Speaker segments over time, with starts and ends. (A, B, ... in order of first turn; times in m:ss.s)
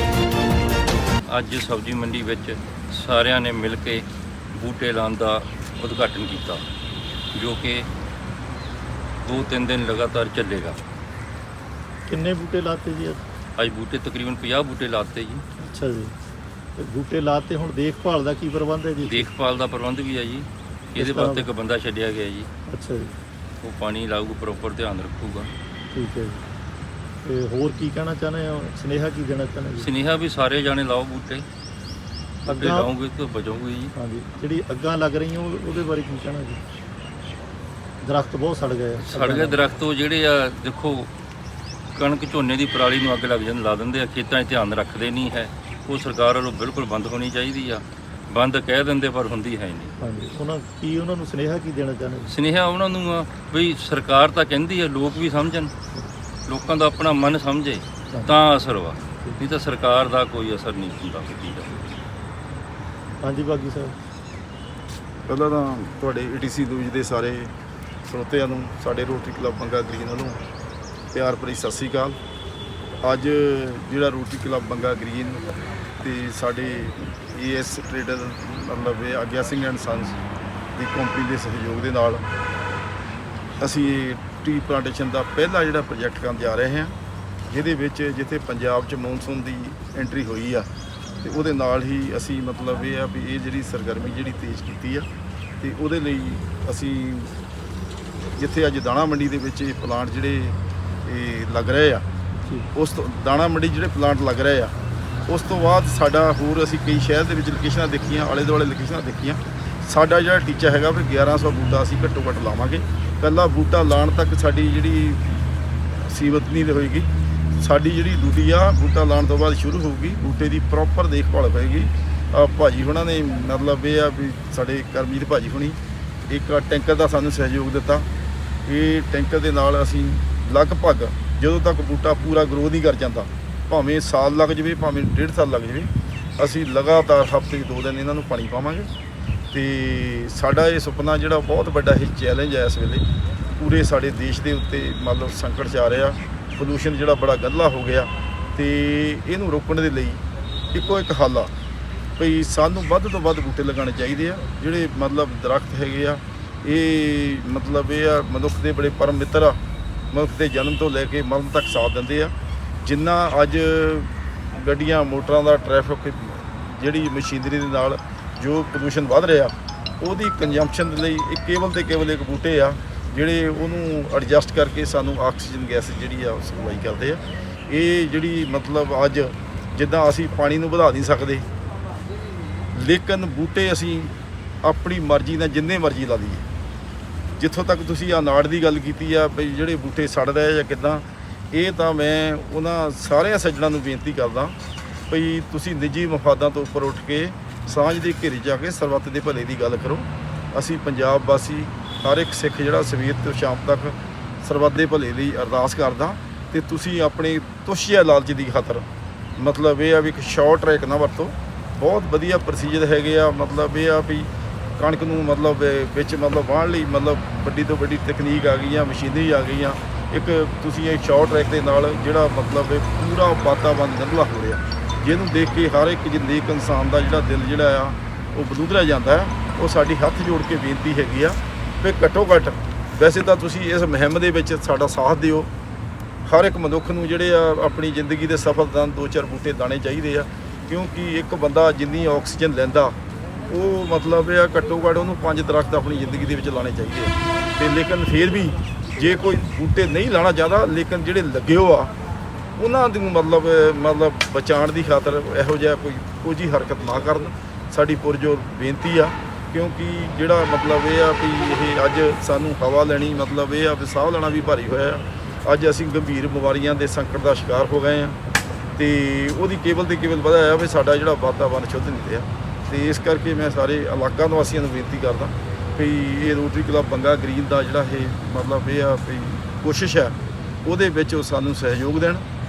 0:01.3-0:06.6 A
0:07.3-0:07.9 A
0:09.2-0:10.8 A
0:12.1-0:13.2 B
0:13.6-0:15.4 A
0:15.6-0:16.1 B
0:16.8-0:19.3 B
0:19.0-0:22.5 A
0:21.0-0:21.5 B
0:22.7-0:23.1 B
0:23.6-0:25.5 A
0:25.9-0:26.4 B
0:27.2-0:29.9 B
0:29.8-0:31.4 A
0:32.4-0:32.9 B
0:32.4-0:33.9 A
0:33.9-0:36.6 B
0:38.0-0:39.6 B
0:39.0-0:41.1 A
0:41.9-0:49.9 A
0:50.0-0:52.3 B
0:52.3-0:55.7 A
0:56.5-1:01.8 A
1:03.2-1:04.0 B
1:05.3-1:07.5 C
1:08.0-1:10.4 C
1:11.1-1:12.2 C
1:13.0-1:15.4 C
1:16.0-1:20.2 C
1:20.7-1:22.2 C
1:23.6-1:26.9 C
1:27.5-1:30.7 C
1:31.2-1:35.1 C
1:35.6-1:37.3 C
1:38.4-1:42.0 C
1:42.7-1:44.7 C
1:45.3-1:55.4 C
1:56.0-1:57.1 C
1:57.6-2:08.1 C
2:08.6-2:18.9 C
2:19.5-2:23.0 C
2:23.6-2:30.2 C
2:30.7-2:31.5 C
2:32.2-2:39.6 C
2:40.1-2:42.3 C
2:42.8-3:01.4 C
3:02.7-3:06.4 C
3:07.4-3:14.5 C
3:15.1-3:28.8 C
3:29.4-3:55.5 C
3:56.2-4:03.0 C
4:03.5-4:11.9 C
4:12.6-4:28.2 C
4:28.8-4:42.2 C